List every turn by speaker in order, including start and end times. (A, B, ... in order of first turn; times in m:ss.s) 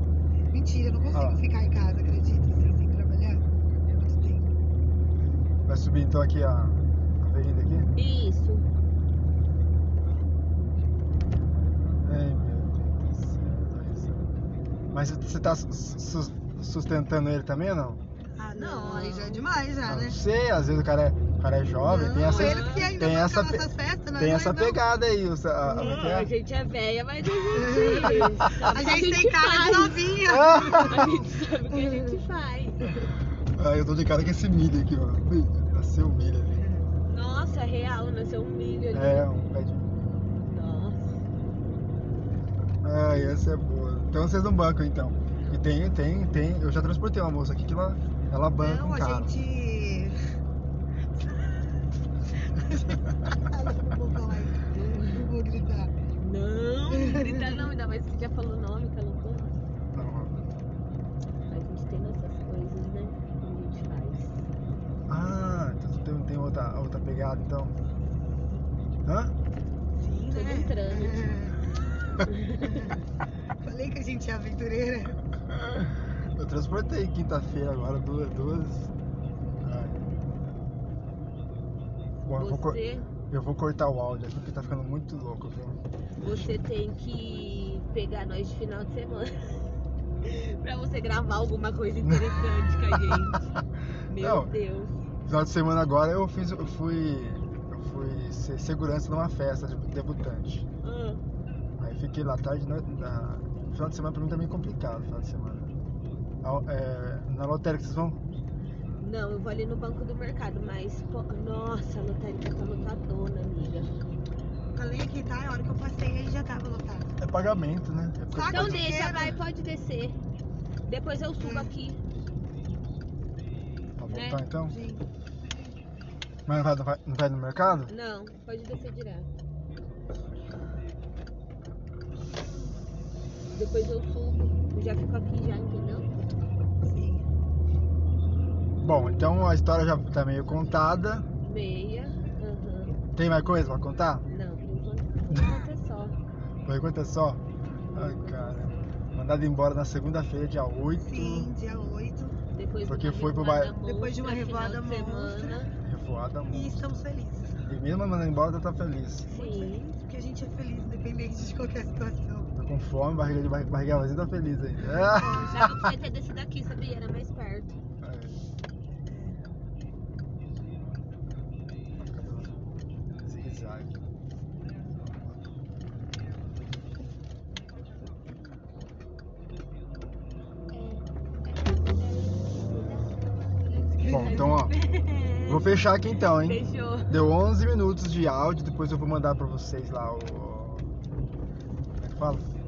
0:00.5-0:04.5 A
0:01.1-0:01.4 B
0:05.7-0:07.9 B
0:08.0-0:08.6 C
0:12.0-0:14.3 B
0:14.9-0:18.0 B
0:18.4-0:20.2 A
0:18.5-0:19.4 C
0:19.8-0:26.3 B
0:21.8-0:24.8 A
0:22.2-0:23.0 C
0:25.7-0:30.2 C
0:27.5-0:31.2 A
0:30.3-0:31.1 B
0:30.8-0:32.9 C
0:31.7-0:32.2 A
0:33.6-0:36.6 B
0:37.0-0:39.3 C
0:38.9-0:40.0 B
0:40.5-0:41.1 C
0:42.8-0:49.3 B
0:48.6-0:50.2 A
0:51.2-0:51.6 A
0:52.5-0:55.9 A
0:54.7-0:55.3 C
0:56.2-0:59.5 C
0:56.9-0:57.6 A
0:59.9-1:00.5 B
1:01.5-1:04.4 C
1:05.1-1:07.7 B
1:09.0-1:09.3 B
1:10.0-1:11.6 A
1:10.3-1:11.4 C
1:12.2-1:13.0 C
1:12.7-1:13.0 A
1:13.6-1:15.2 A
1:16.4-1:18.9 B
1:19.6-1:20.1 B
1:22.2-1:26.5 B
1:22.4-1:23.1 C
1:26.2-1:29.6 C
1:30.2-1:33.5 C
1:33.0-1:33.6 B
1:34.1-1:34.9 C
1:34.2-1:34.5 B
1:35.2-1:40.6 B
1:40.8-1:41.2 C
1:41.8-1:45.7 B
1:46.4-1:48.2 B
1:49.0-1:53.9 C
1:54.7-1:57.1 A
1:57.2-1:58.9 B
1:58.3-1:59.4 A
1:58.4-2:00.2 C
2:00.9-2:02.0 C
2:01.4-2:01.7 A
2:04.0-2:04.7 B
2:04.1-2:04.5 C
2:04.7-2:05.0 A
2:06.5-2:07.9 B
2:07.9-2:09.3 C
2:13.5-2:16.1 C
2:16.8-2:17.2 A
2:18.8-2:21.2 B
2:21.4-2:23.0 C
2:23.1-2:24.2 B
2:24.2-2:26.2 C
2:26.6-2:27.4 B
2:27.9-2:29.0 C
2:27.9-2:31.5 B
2:31.0-2:32.4 A
2:32.5-2:35.7 C
2:32.8-2:33.7 B
2:33.8-2:35.7 A
2:35.8-2:36.8 B
2:36.5-2:37.6 A
2:37.6-2:39.3 B
2:39.3-2:42.5 A
2:39.3-2:39.9 C
2:42.6-2:45.6 B
2:44.8-2:45.6 A
2:45.2-2:47.7 C
2:48.0-2:48.4 B
2:49.1-2:49.4 A
2:52.0-2:52.6 B
2:53.2-2:54.0 B
3:00.7-3:01.0 C
3:01.6-3:03.2 C
3:03.8-3:04.5 A
3:04.0-3:07.2 C
3:04.0-3:04.7 B
3:05.4-3:10.9 B
3:12.0-3:12.5 B